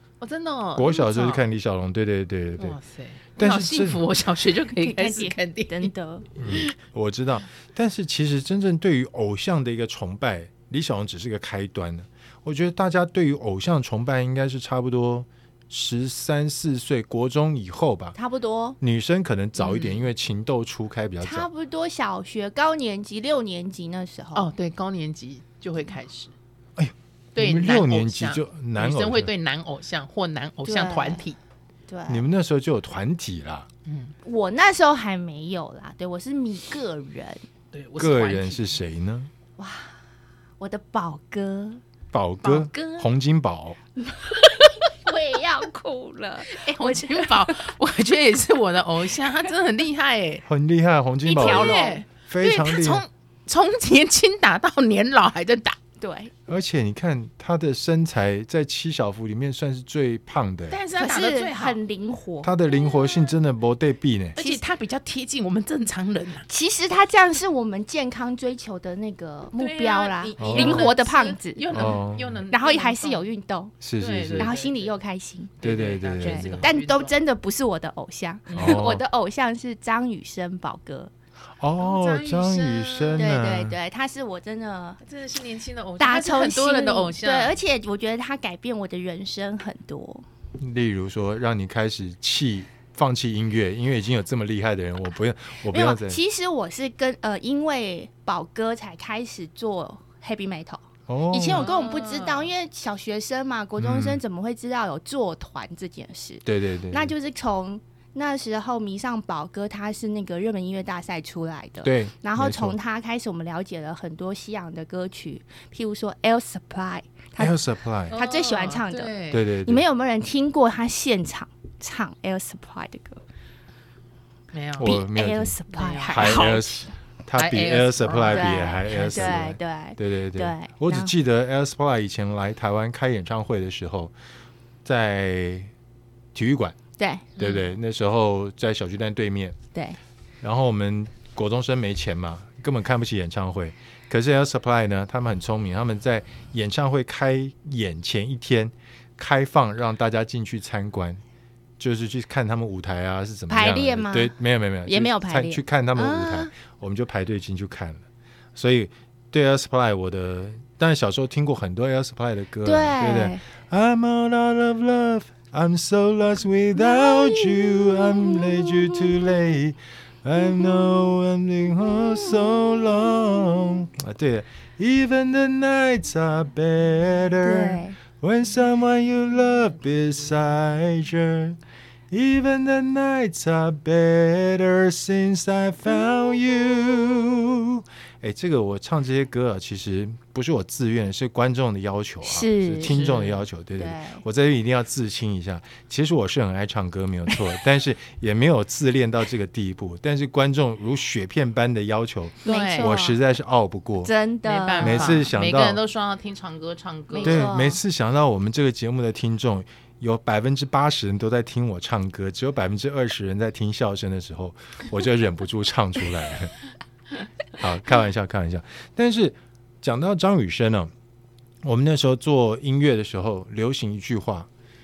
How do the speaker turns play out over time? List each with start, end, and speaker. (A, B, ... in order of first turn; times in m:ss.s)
0:00.2-0:01.5 A
0:00.8-0:02.8 B
0:02.6-0:06.7 A
0:03.4-0:04.0 B
0:04.8-0:06.3 C
0:06.4-0:18.2 B
0:18.1-0:18.8 C
0:18.8-0:21.5 B
0:19.6-0:20.0 A
0:21.2-0:24.5 C
0:24.3-0:26.3 A
0:26.8-0:29.3 B
0:27.3-0:31.4 A
0:30.6-0:31.2 C
0:31.9-0:32.2 C
0:32.1-0:33.7 B
0:33.8-0:34.1 A
0:34.2-0:37.4 C
0:37.7-0:38.8 A
0:38.0-0:39.3 B
0:39.6-0:40.0 C
0:40.6-0:41.8 C
0:42.1-0:43.8 B
0:42.4-0:43.1 C
0:44.0-0:47.7 C
0:46.5-0:50.4 A
0:50.4-0:53.0 B
0:51.2-0:55.8 A
0:51.3-0:52.0 C
0:56.0-0:56.3 C
0:56.5-1:00.8 B
1:00.7-1:01.8 A
1:01.0-1:02.5 C
1:02.4-1:04.4 B
1:04.4-1:06.4 A
1:06.5-1:12.0 C
1:09.5-1:13.2 A
1:10.4-1:10.9 B
1:11.7-1:12.4 B
1:12.5-1:13.7 C
1:13.8-1:14.5 B
1:14.0-1:14.9 A
1:14.4-1:15.6 C
1:15.6-1:17.1 A
1:15.6-1:16.7 B
1:16.2-1:21.1 C
1:18.5-1:18.8 A
1:18.5-1:19.0 B
1:21.6-1:23.8 B
1:21.8-1:23.4 A
1:23.2-1:25.0 C
1:25.0-1:27.6 A
1:26.0-1:30.2 C
1:30.6-1:36.2 B
1:35.7-2:03.2 C
1:41.1-1:41.6 B
1:41.5-1:42.5 A
1:43.8-1:44.2 B
1:46.4-1:47.1 B
1:51.8-1:52.8 B
1:57.4-1:58.2 B
1:58.1-1:59.5 A
1:59.3-1:59.8 B
2:04.5-2:04.9 A
2:04.8-2:14.1 B
2:04.8-2:06.9 C
2:05.7-2:06.6 A
2:07.3-2:09.4 A
2:08.3-2:11.1 C
2:14.8-2:15.7 B
2:16.3-2:16.8 B
2:17.0-2:17.3 C
2:17.4-2:17.7 A
2:17.4-2:19.6 B
2:20.4-2:31.2 B
2:31.8-2:38.0 B
2:33.5-2:36.5 C
2:38.5-3:01.6 B
2:42.6-2:43.4 C
2:46.8-2:49.4 C
2:50.4-2:51.1 C
2:51.8-2:53.8 C
2:57.4-2:58.0 C
3:02.1-3:24.1 B
3:05.9-3:07.2 C
3:12.2-3:12.9 C
3:12.8-3:13.5 A
3:13.8-3:14.2 C
3:22.4-3:23.0 A
3:22.4-3:23.2 C
3:24.0-3:25.3 C
3:24.4-3:27.5 A
3:24.8-3:25.8 B
3:27.1-3:27.8 C
3:27.2-3:36.6 B
3:37.5-3:40.9 B
3:41.6-3:44.5 B